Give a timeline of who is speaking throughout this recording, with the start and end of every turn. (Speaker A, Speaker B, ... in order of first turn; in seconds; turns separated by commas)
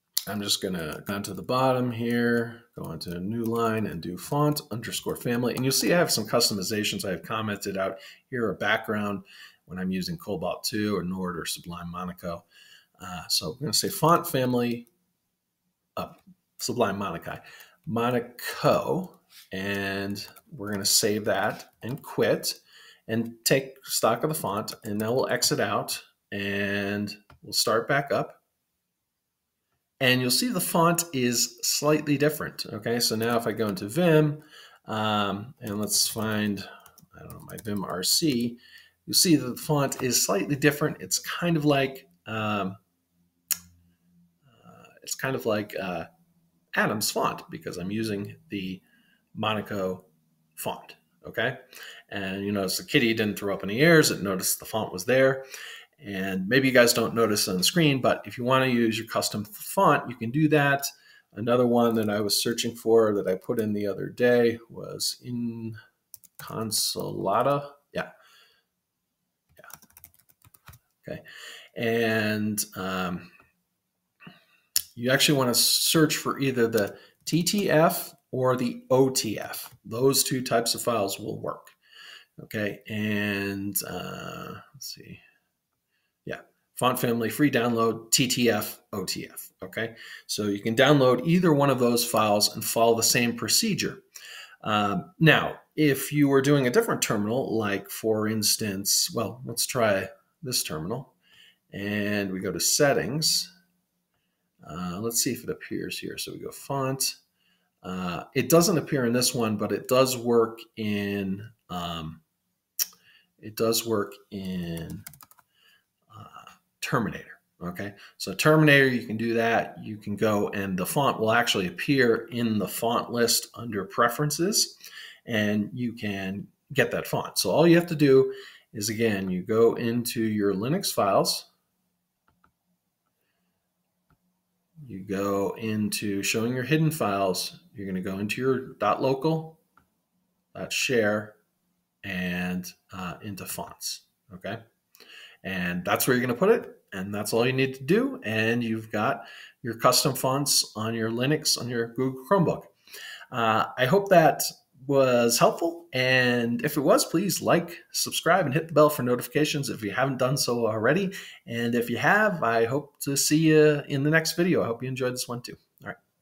Speaker A: 0.3-12.4, Speaker A: 13.0-14.9, Speaker A: 15.9-28.4, Speaker A: 30.0-42.8, Speaker A: 44.5-46.1, Speaker A: 46.7-48.8, Speaker A: 49.3-55.5, Speaker A: 56.0-65.8, Speaker A: 66.4-68.1, Speaker A: 71.7-73.3, Speaker A: 74.9-81.8, Speaker A: 82.4-85.2, Speaker A: 86.2-94.0, Speaker A: 94.6-101.1, Speaker A: 101.7-103.5, Speaker A: 104.6-107.2, Speaker A: 107.8-112.2, Speaker A: 113.4-115.0, Speaker A: 116.1-131.5, Speaker A: 134.8-139.6, Speaker A: 140.5-141.4, Speaker A: 142.0-144.6, Speaker A: 145.4-152.7, Speaker A: 153.3-166.0